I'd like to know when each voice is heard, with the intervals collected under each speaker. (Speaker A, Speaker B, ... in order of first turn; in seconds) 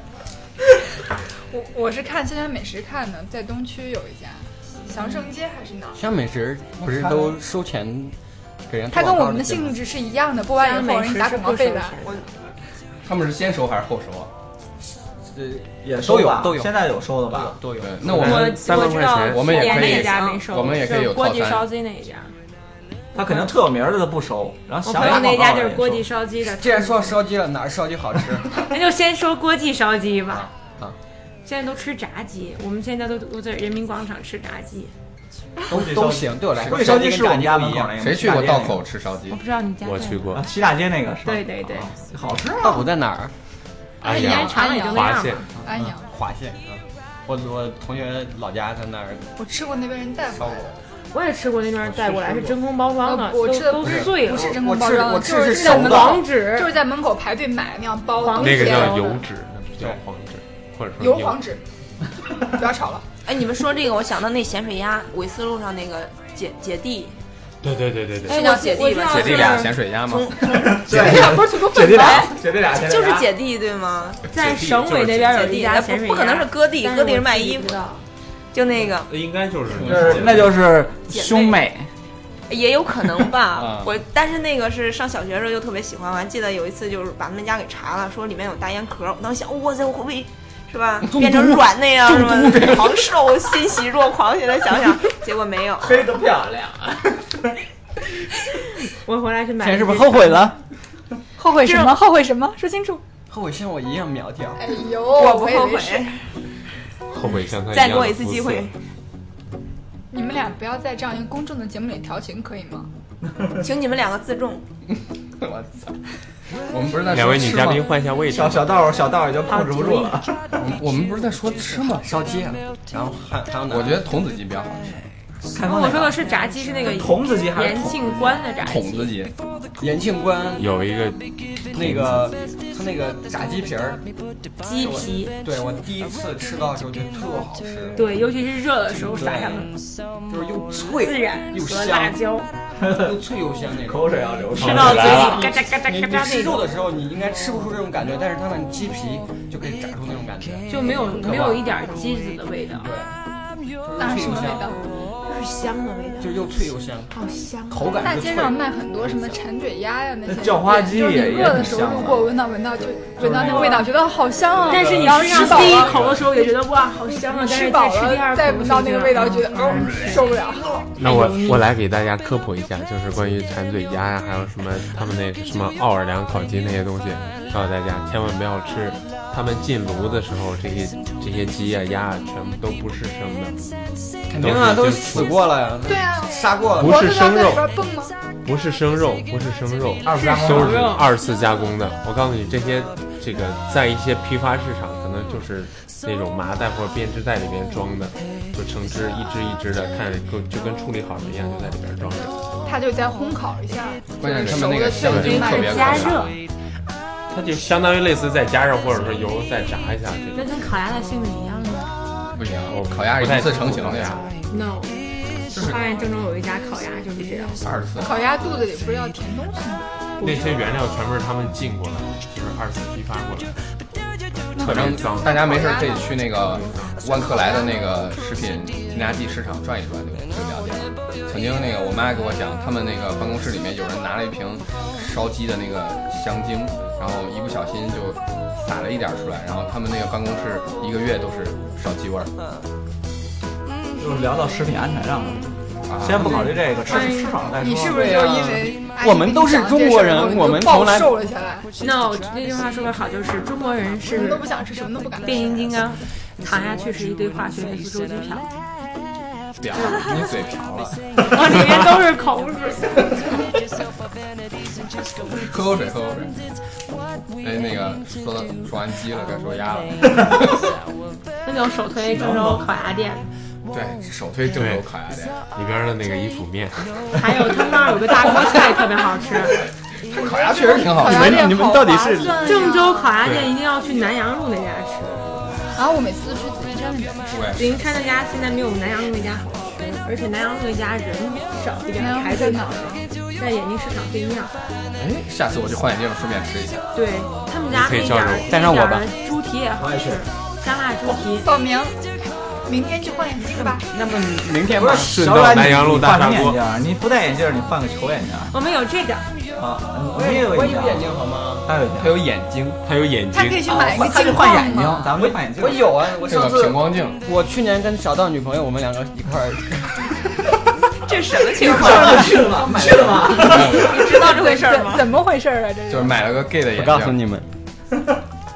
Speaker A: 1.5-6.0, 8.9-12.0, 44.0-45.1, 45.6-46.1, 49.4-50.7, 53.0-59.2, 61.0-61.6, 62.4-63.0, 70.9-72.3, 101.4-103.0, 104.6-106.2, 110.1-112.9, 154.0-155.1, 158.0-166.0, 167.1-170.9, 185.8-188.2, 202.6-206.1, 218.0-219.9, 224.6-226.2, 227.3-227.7, 247.6-251.7, 254.1-255.8, 280.1-283.2, 285.7-287.7, 291.9-293.0, 301.3-302.0, 302.6-303.9, 313.3-315.1, 323.6-326.4
Speaker B: 6.0-8.2, 8.7-9.8, 15.3-18.4, 24.9-25.2, 26.5-28.6, 30.3-31.0, 35.7-38.0, 42.6-43.3, 45.7-49.3, 50.4-50.7, 51.8-52.6, 53.8-56.2, 91.1-93.0, 99.6-100.6, 103.3-104.6, 122.0-124.1, 129.8-130.7, 131.7-134.0, 134.8-138.1, 138.9-139.7, 140.3-142.2, 142.8-151.8, 152.7-153.2, 153.8-154.7, 156.2-157.1, 157.7-159.4, 164.9-165.2, 184.3-187.0, 247.9-251.1, 281.0-282.6, 298.5-299.1, 303.8-305.2, 310.1-311.7, 315.1-320.2, 321.6-323.6, 326.7-327.5
Speaker C: 6.8-7.4, 15.8-17.6, 23.1-26.0, 35.7-38.8, 40.3-42.9, 70.4-73.3, 79.7-81.9, 95.8-97.5, 118.3-120.3, 125.5-126.2, 126.9-128.4, 142.8-143.2, 143.8-145.3, 160.3-162.3, 163.2-163.9, 190.0-190.9, 244.0-248.1, 272.1-272.7, 299.8-300.2, 304.7-308.5, 309.6-311.1, 311.6-312.1, 313.7-315.9, 321.6-324.0
Speaker D: 10.5-12.2, 18.2-22.3, 23.2-23.5, 24.8-27.2, 28.6-30.5, 31.4-34.9, 39.3-40.4, 41.2-41.9, 44.1-45.5, 51.1-54.6, 55.5-56.8, 58.2-59.2, 68.3-69.8, 74.3-78.0, 98.9-100.5, 101.6-101.9, 119.5-120.2, 125.7-129.1, 134.6-135.3, 138.0-139.7, 141.0-142.5, 144.6-146.7, 150.7-152.9, 155.3-156.3, 157.1-157.9, 164.7-170.4, 171.0-171.7, 190.1-191.1, 205.0-206.3, 210.3-211.9, 214.5-217.6, 220.2-220.7, 246.9-247.4, 251.8-254.5, 255.2-258.5, 259.7-260.0, 261.2-263.1, 271.4-273.3, 277.1-279.6, 282.4-285.4, 287.6-294.6, 296.9-301.5, 308.5-309.3
Speaker E: 13.0-14.3, 17.8-21.7, 36.6-37.0, 38.0-39.4, 69.0-70.3, 83.5-83.9, 115.4-116.0, 116.7-117.8, 120.5-122.1, 123.7-125.1, 128.6-129.3, 204.2-206.2, 212.3-214.2, 215.5-215.8, 217.6-218.2, 224.6-242.3, 245.9-246.5, 259.6-261.6, 265.2-266.4, 267.4-270.5, 273.7-275.4, 280.1-281.5, 287.3-287.7, 295.0-296.9, 312.0-312.8, 316.2-317.2, 323.4-323.9, 325.9-327.2
Speaker F: 18.0-20.0, 39.8-40.5, 44.0-45.5, 58.4-61.4, 67.6-68.5, 74.3-75.5, 78.8-80.6, 107.1-108.7, 117.1-118.8, 130.6-132.3, 144.6-145.4, 165.4-166.2, 171.0-183.7, 184.3-185.4, 186.8-187.7, 188.4-202.4, 204.4-206.2, 207.3-210.7, 212.7-214.3, 220.2-223.6, 224.6-225.4, 226.6-227.0, 274.5-274.9, 275.5-277.5, 283.2-283.6, 297.7-298.5, 304.9-306.6, 312.8-313.7
Speaker G: 19.8-20.4, 63.2-67.2, 68.3-74.3, 75.3-77.8, 78.5-79.2, 81.1-81.6, 82.5-96.1, 105.1-106.1, 107.7-108.7, 113.5-114.6, 321.0-322.5, 323.4-325.1